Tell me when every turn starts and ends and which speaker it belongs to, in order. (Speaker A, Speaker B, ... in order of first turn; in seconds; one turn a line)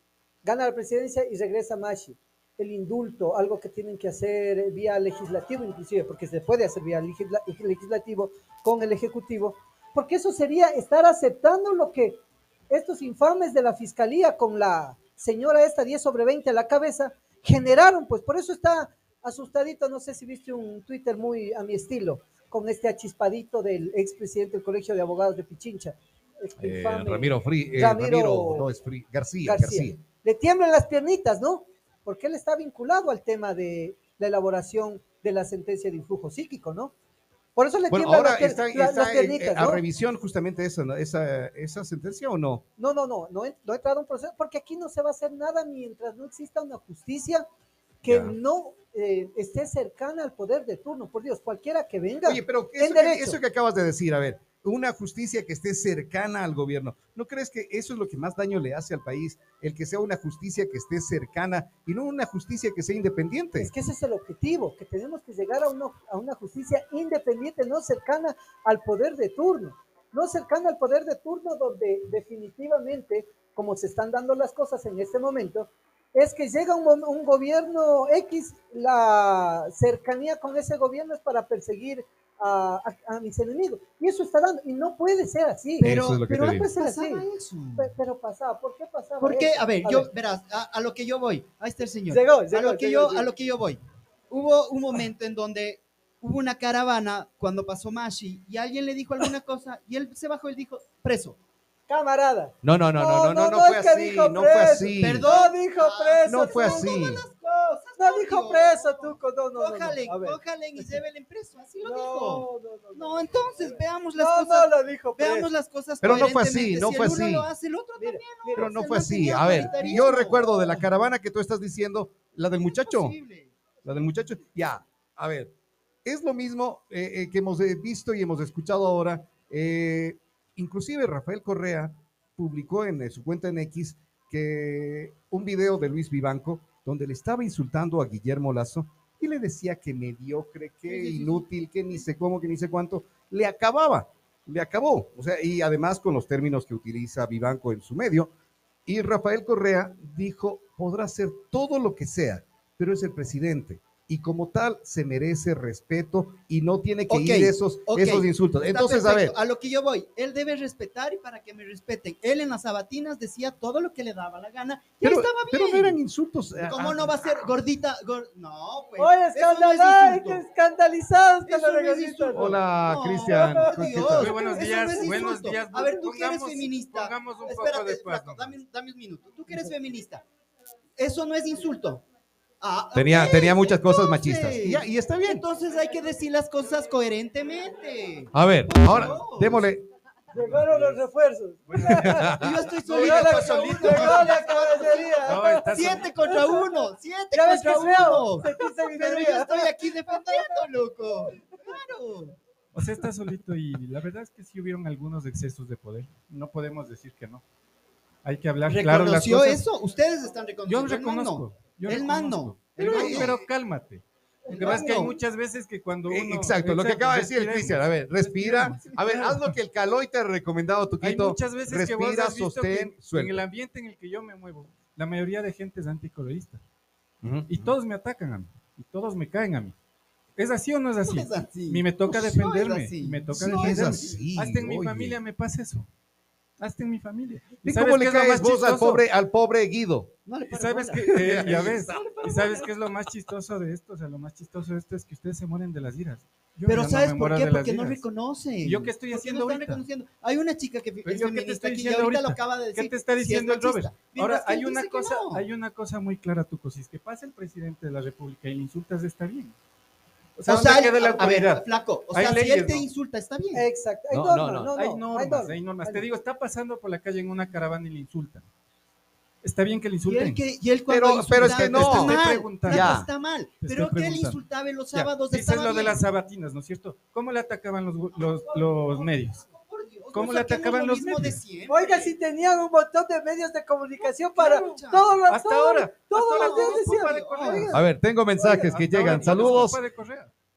Speaker A: 0.4-28.7
Speaker B: 26.6-30.0
Speaker A: 29.4-36.9
Speaker A: 37.5-39.8
Speaker B: 37.9-42.6
Speaker A: 42.8-47.4
Speaker A: 48.0-53.4
Speaker B: 48.0-48.4
Speaker B: 52.2-63.7
Speaker A: 63.6-87.2
Speaker C: 85.8-87.9
Speaker B: 85.8-86.7
Speaker A: 87.8-90.1
Speaker C: 89.2-101.4
Speaker A: 92.1-93.3
Speaker A: 101.9-107.2
Speaker B: 102.6-105.3
Speaker C: 105.0-120.5
Speaker B: 106.3-107.2
Speaker A: 108.0-111.0
Speaker A: 111.8-115.5
Speaker B: 116.0-117.5
Speaker A: 118.0-120.8
Speaker B: 118.5-123.2
Speaker C: 122.7-123.5
Speaker B: 123.8-125.5
Speaker B: 126.0-148.3
Speaker C: 140.9-141.4
Speaker B: 148.8-159.3
Speaker C: 157.1-166.0
Speaker B: 165.0-167.5
Speaker C: 166.6-170.4
Speaker A: 169.0-172.5
Speaker C: 171.5-180.2
Speaker B: 172.3-174.3
Speaker A: 173.3-173.7
Speaker D: 174.1-178.6
Speaker C: 181.0-182.0
Speaker C: 182.6-189.7
Speaker B: 182.9-185.4
Speaker B: 188.3-189.8
Speaker A: 190.3-192.3
Speaker D: 190.3-191.0
Speaker D: 191.7-194.5
Speaker B: 191.9-192.5
Speaker C: 192.4-202.8
Speaker A: 192.9-196.6
Speaker D: 195.2-196.2
Speaker A: 197.3-200.5
Speaker D: 202.7-207.4
Speaker D: 208.2-209.6
Speaker C: 208.7-213.4
Speaker D: 210.7-219.5
Speaker B: 212.8-213.4
Speaker A: 214.4-215.1
Speaker C: 214.5-215.0
Speaker B: 214.6-215.1
Speaker B: 216.1-223.4
Speaker C: 218.6-219.0
Speaker D: 221.0-226.6
Speaker B: 227.2-227.7
Speaker D: 227.5-229.7
Speaker D: 230.3-235.9
Speaker C: 231.0-234.2
Speaker B: 233.3-235.2
Speaker D: 236.6-239.0
Speaker B: 237.6-240.1
Speaker C: 240.2-242.7
Speaker D: 240.5-248.0
Speaker B: 241.2-242.1
Speaker C: 246.7-255.4
Speaker D: 248.6-249.8
Speaker D: 251.0-259.5
Speaker D: 260.4-262.9
Speaker C: 260.4-263.6
Speaker A: 263.5-266.1
Speaker B: 264.1-264.7
Speaker D: 264.7-268.4
Speaker D: 269.4-270.4
Speaker C: 270.1-276.0
Speaker B: 270.9-273.1
Speaker D: 271.3-273.0
Speaker D: 273.6-274.4
Speaker D: 274.9-279.4
Speaker C: 278.1-282.1
Speaker D: 280.1-281.4
Speaker A: 281.7-287.7
Speaker C: 284.0-285.2
Speaker D: 285.3-287.7
Speaker C: 286.3-287.8
Speaker B: 287.7-289.8
Speaker A: 288.4-288.7
Speaker D: 288.4-290.3
Speaker C: 289.2-289.6